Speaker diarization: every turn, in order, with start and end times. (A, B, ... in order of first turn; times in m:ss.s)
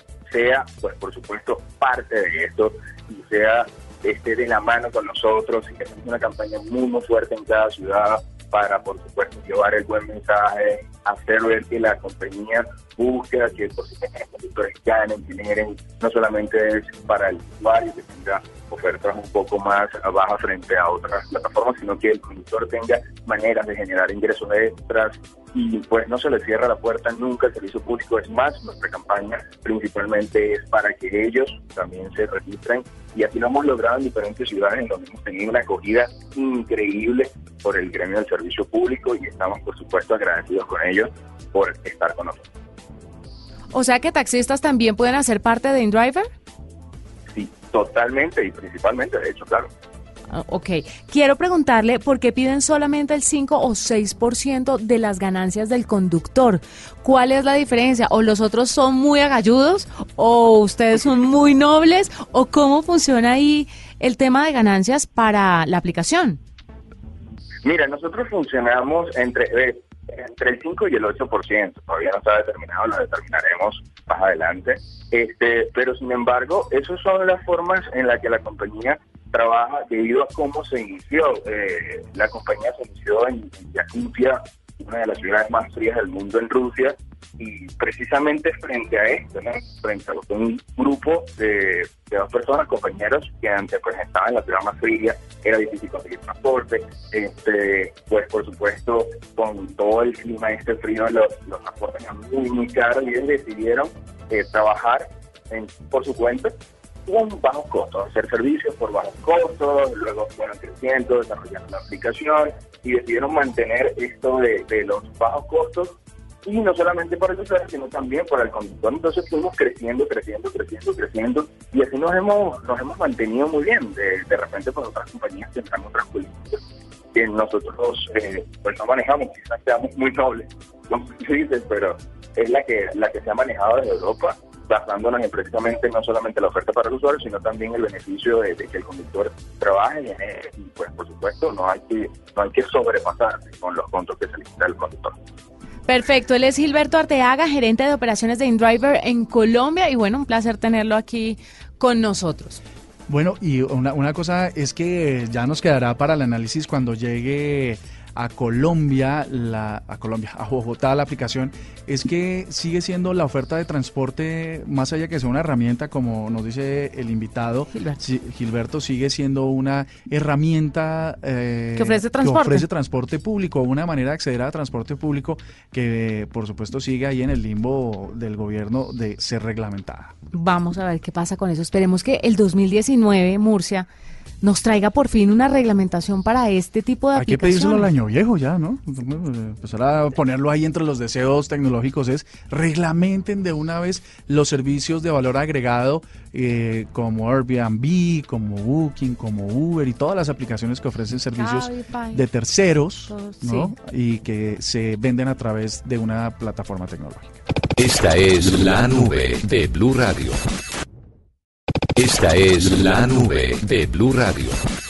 0:00.3-0:42.5 A
0:43.7-0:46.3 B
0:47.3-0:49.7 A
0:50.3-1:06.4 B
1:07.6-1:46.5 A
1:47.1-2:06.6 A
2:07.1-2:25.1 A
2:25.9-2:32.6 B
2:33.1-3:00.1 C
2:47.7-2:48.0 B
2:51.8-2:52.6 B
3:00.3-3:03.9 B
3:04.4-3:07.9 B
3:07.1-3:27.4 C
3:21.4-3:22.2 B
3:23.1-3:23.7 B
3:27.8-3:30.4 D
3:32.0-3:34.6 D